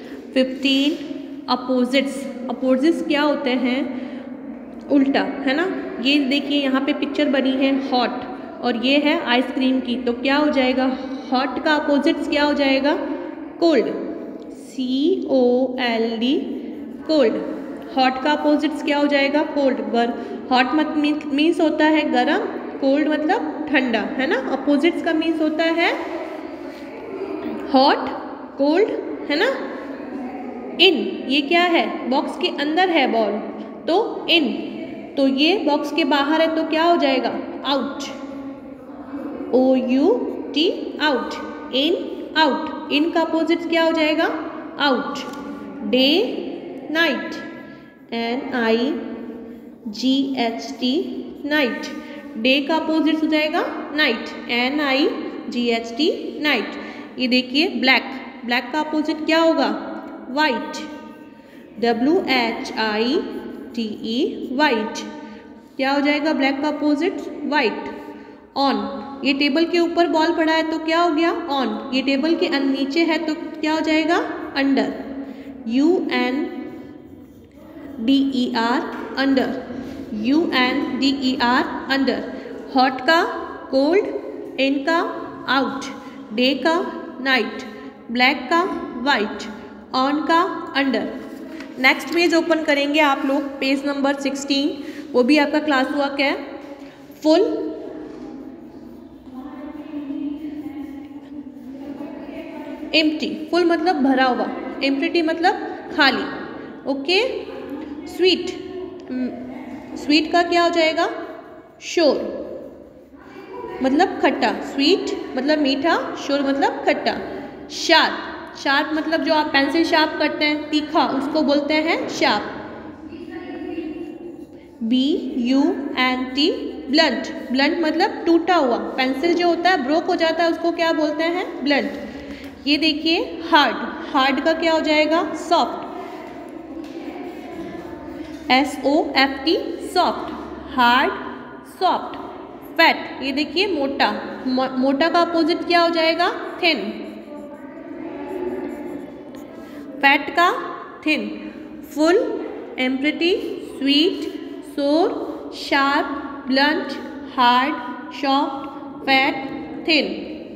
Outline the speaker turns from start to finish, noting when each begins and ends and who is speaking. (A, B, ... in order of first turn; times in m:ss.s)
0:00.3-0:03.9 A
0:04.9-0:13.0 A
0:13.6-0:16.5 A
0:17.0-0:26.0 A
0:27.6-0:29.6 A
0:30.8-0:38.2 A
0:39.5-0:47.4 A
0:48.1-0:49.0 A
0:49.8-1:00.9 A
1:01.8-1:05.1 A
1:05.8-1:07.9 A
1:08.6-1:15.0 A
1:15.6-1:16.6 A
1:18.0-1:31.1 A
1:31.8-1:36.4 A
1:37.1-1:37.6 A
1:42.9-1:46.3 A
1:46.9-1:47.4 A
1:48.0-1:49.4 A
1:49.9-1:51.1 A
1:51.8-1:52.3 A
1:53.8-2:02.5 A
2:04.8-2:12.0 A
2:12.6-2:15.9 A
2:18.5-2:22.2 A
2:22.8-2:27.0 A
2:30.0-2:40.3 A